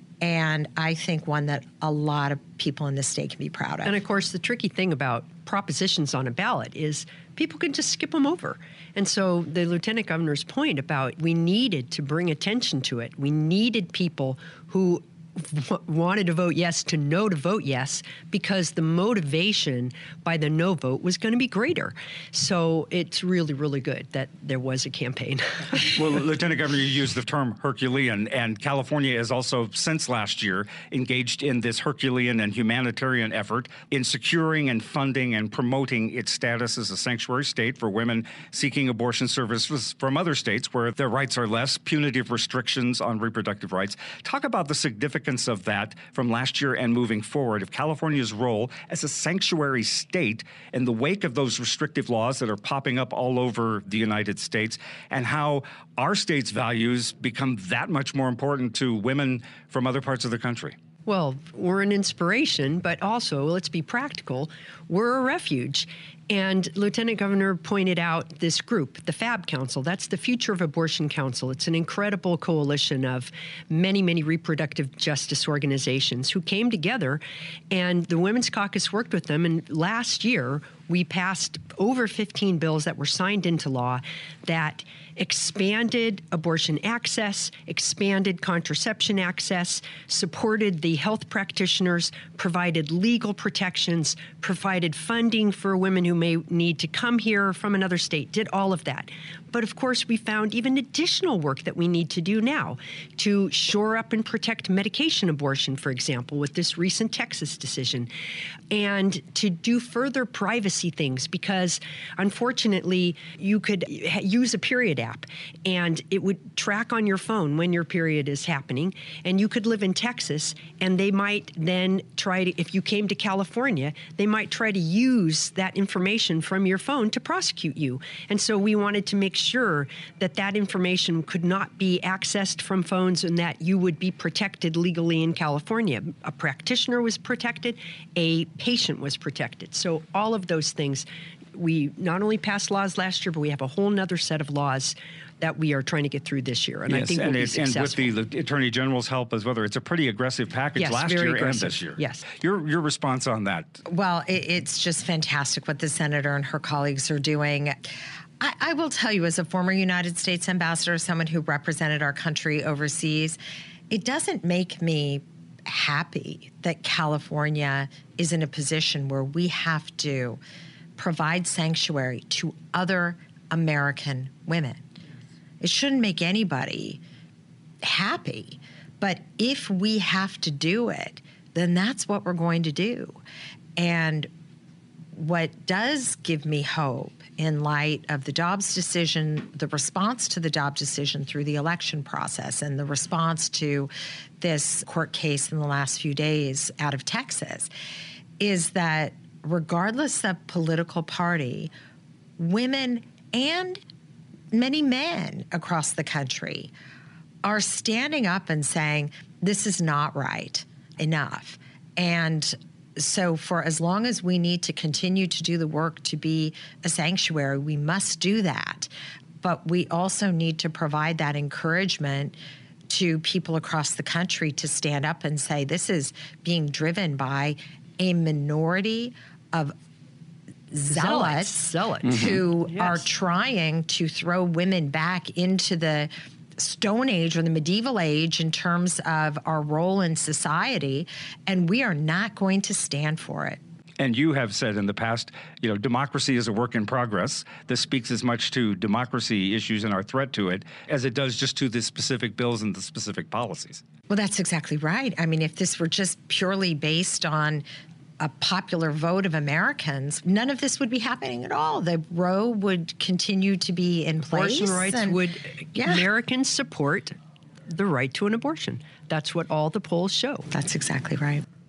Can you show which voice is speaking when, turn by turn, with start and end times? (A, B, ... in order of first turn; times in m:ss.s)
0:00.2-0:04.0 A
0:03.8-0:26.0 B
0:25.9-1:00.8 C
1:01.0-1:48.1 B
1:48.7-2:28.1 B
2:26.9-2:33.8 C
2:30.8-2:32.2 B
2:33.8-2:43.4 A
2:43.9-2:50.4 A
2:51.0-2:54.8 A
2:55.6-2:57.0 A
2:57.8-3:03.2 A
3:03.8-3:04.3 A
3:05.1-3:17.7 A
3:18.4-3:21.7 A
3:22.4-3:23.8 A
3:24.5-3:26.7 A
3:27.4-3:38.9 A
3:39.4-3:42.3 A
3:42.9-3:49.7 A
3:50.7-4:03.6 A
3:50.9-3:53.0 B
4:04.0-4:13.8 C
4:14.1-4:17.6 A
4:18.2-4:25.2 A
4:24.3-4:27.2 B
4:25.7-4:26.0 A
4:27.7-4:30.5 B
4:30.5-4:31.4 A